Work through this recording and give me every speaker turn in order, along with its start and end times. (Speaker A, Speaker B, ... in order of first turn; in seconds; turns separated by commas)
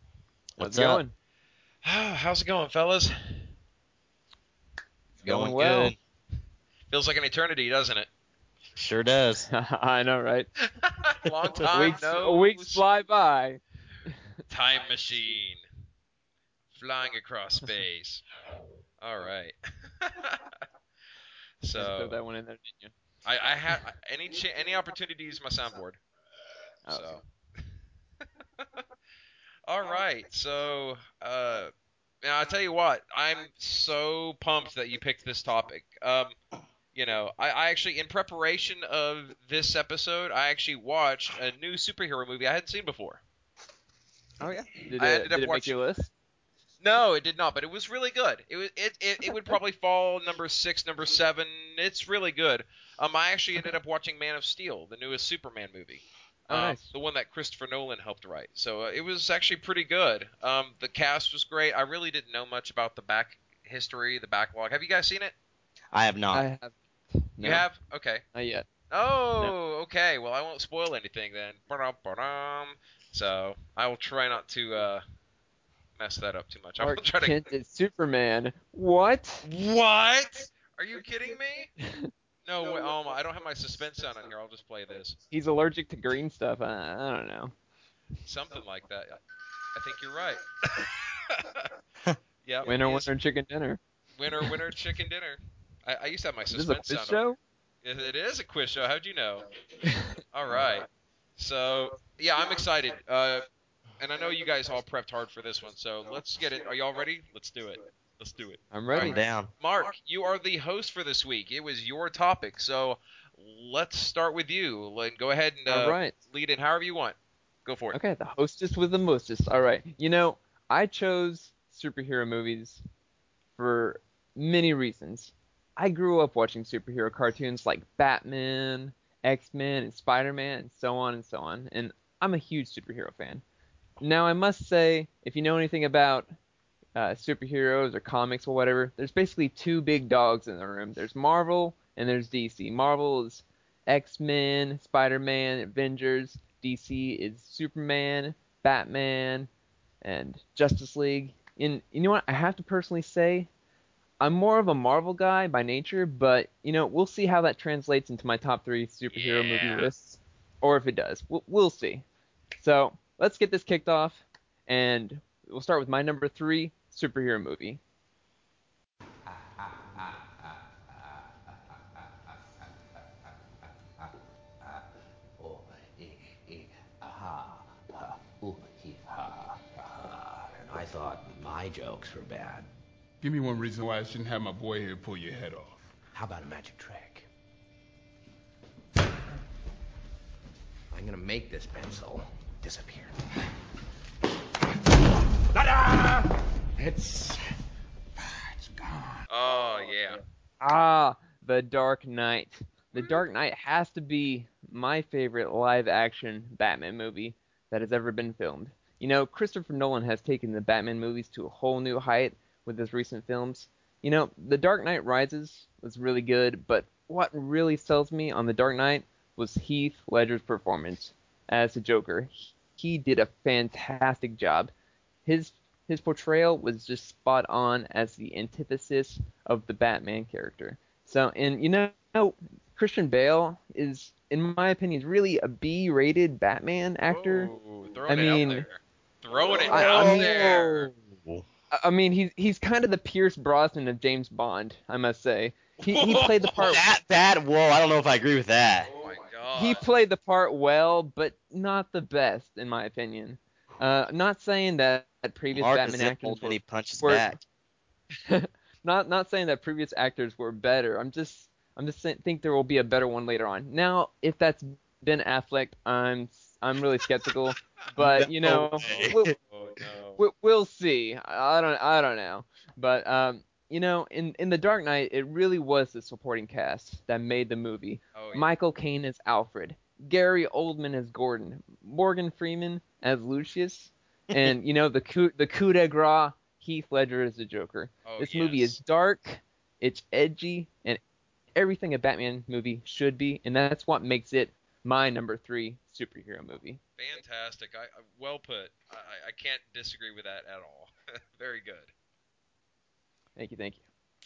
Speaker A: 0.6-1.0, Speaker B: 0.6-1.1, Speaker C: 1.8-3.5, Speaker B: 5.2-5.9, Speaker A: 5.2-6.0, Speaker C: 6.9-8.1, Speaker A: 8.8-9.5, Speaker B: 9.5-10.5, Speaker C: 10.8-12.8, Speaker B: 11.6-14.1, Speaker C: 14.5-15.6, Speaker C: 16.7-18.2, Speaker C: 19.0-20.5, Speaker C: 21.6-22.2, Speaker B: 21.7-22.9, Speaker C: 23.2-26.0, Speaker B: 26.9-27.2, Speaker C: 26.9-27.2, Speaker C: 29.7-31.7, Speaker C: 32.2-36.4, Speaker C: 36.9-43.2, Speaker B: 44.4-46.1, Speaker C: 44.9-45.8, Speaker C: 46.8-65.3, Speaker B: 49.2-49.5, Speaker B: 56.5-56.9, Speaker A: 65.9-66.5, Speaker B: 66.3-67.6, Speaker C: 67.4-68.2, Speaker B: 68.3-68.7, Speaker C: 68.9-75.0, Speaker C: 76.0-77.5, Speaker B: 76.8-79.5, Speaker C: 79.5-81.7, Speaker B: 81.8-82.1, Speaker C: 82.4-85.2, Speaker B: 85.3-87.5, Speaker C: 88.2-89.2, Speaker C: 89.7-91.7, Speaker C: 92.4-93.1, Speaker B: 92.6-93.8, Speaker C: 94.2-97.2, Speaker B: 96.5-97.4, Speaker C: 97.8-99.5, Speaker B: 99.8-100.1, Speaker C: 100.3-103.5, Speaker C: 104.0-118.0, Speaker B: 108.7-109.2, Speaker A: 108.9-109.5, Speaker B: 115.7-116.1, Speaker B: 117.9-122.8, Speaker B: 123.6-133.4, Speaker B: 134.0-136.3, Speaker B: 136.9-149.5, Speaker B: 150.0-153.5, Speaker B: 154.2-162.0, Speaker C: 159.1-159.9, Speaker B: 162.6-167.8, Speaker D: 169.2-174.9, Speaker D: 175.4-182.7, Speaker E: 183.2-185.8, Speaker D: 186.1-187.3, Speaker D: 190.9-193.1, Speaker D: 195.5-197.4, Speaker D: 198.5-199.2, Speaker C: 199.3-200.2, Speaker B: 200.6-224.7, Speaker B: 225.2-237.5, Speaker C: 237.1-240.9, Speaker B: 238.1-238.7, Speaker B: 239.6-240.9, Speaker A: 239.8-240.4, Speaker A: 240.9-241.4, Speaker B: 241.7-246.8, Speaker C: 245.8-246.8, Speaker A: 246.6-248.9, Speaker C: 249.0-249.8, Speaker B: 249.5-257.3, Speaker A: 255.5-257.4, Speaker B: 258.2-269.3, Speaker A: 267.9-269.3, Speaker C: 268.8-270.2, Speaker B: 270.2-291.0, Speaker C: 278.1-278.5, Speaker C: 288.0-288.7, Speaker B: 291.5-296.8, Speaker C: 297.0-301.9, Speaker B: 303.4-303.8